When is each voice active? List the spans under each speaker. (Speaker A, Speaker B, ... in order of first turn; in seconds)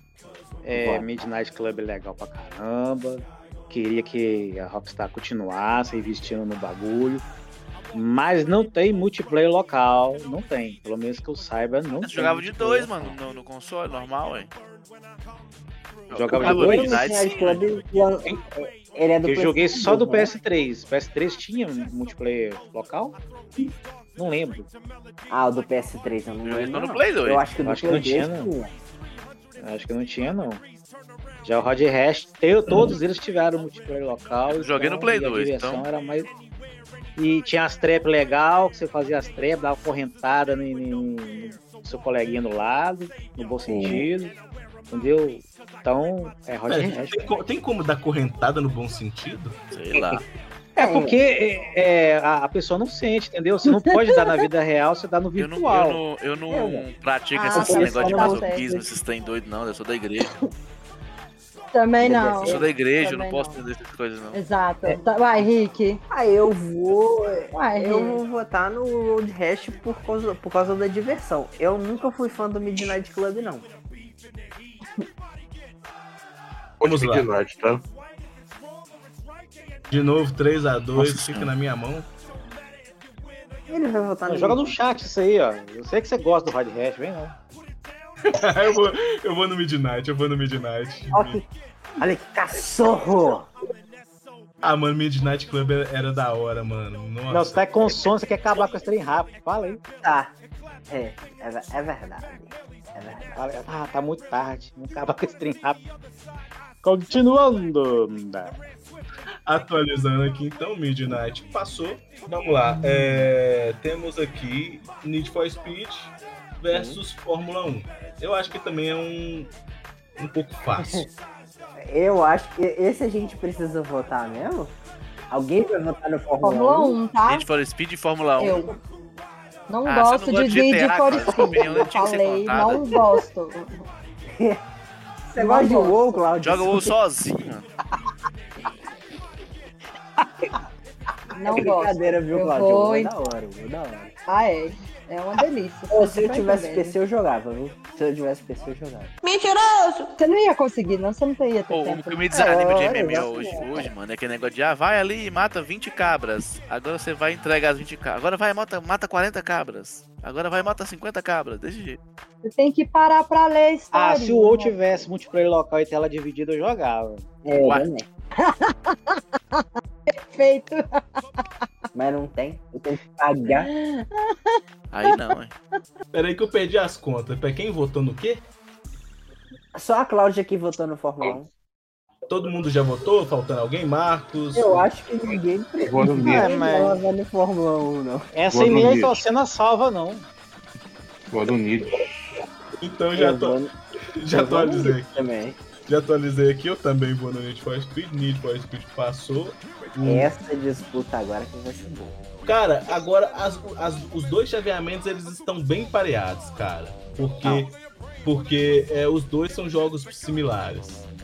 Speaker A: 0.6-7.2, 7.9-13.1, 16.1-17.0, 19.2-23.2, 24.1-24.7, 27.6-28.5, 29.6-30.6, 31.4-36.3, 37.2-44.3, 44.9-47.3, 49.9-50.2, 50.8-56.0, 84.3-87.3, 97.3-99.8, 103.3-105.8, 106.8-108.6, 163.9-167.3, 186.2-187.0, 188.3-190.2
Speaker B: 0.8-1.3, 16.3-20.3, 25.3-28.7, 43.6-44.0, 50.8-51.2, 56.5-56.8, 57.5-58.9, 62.0-62.7, 66.1-73.7, 83.7-84.8, 91.1-91.5, 92.0-93.5, 100.0-100.3, 100.9-103.4, 116.7-117.0, 120.8-121.1, 121.8-124.7, 125.3-127.0, 131.2-131.7, 134.3-134.6, 135.3-136.9, 141.5-144.1, 145.9-149.1, 152.3-153.9, 167.4-168.1, 171.9-173.7, 179.7-181.5, 184.5-188.3, 193.1-193.7, 194.3-195.6, 200.0-202.1
Speaker C: 12.0-14.5, 16.1-17.7, 26.4-27.5, 34.5-35.8, 49.7-50.2, 55.4-60.3, 62.4-64.4, 81.0-81.5, 127.3-128.6, 129.8-133.0, 136.4-137.7, 151.7-162.0, 167.6-167.9, 174.9-175.5
Speaker D: 46.7-49.5, 76.8-77.3, 79.9-82.1, 88.3-91.4, 94.6-98.1, 109.5-119.5, 120.2-121.0, 176.1-178.4, 182.3-184.9, 192.8-193.6, 194.2-195.2, 195.9-200.3, 202.4-211.0
Speaker E: 53.7-54.4, 57.3-58.6, 61.7-63.6, 64.3-66.0, 67.5-68.2, 126.4-127.5, 128.4-128.7, 129.7-133.8, 135.4-136.2, 141.3-143.1, 144.3-147.0, 150.2-152.2, 162.4-165.0, 168.4-171.0, 173.5-175.2
Speaker F: 76.8-77.8, 185.8-186.5, 188.5-189.2, 191.3-192.0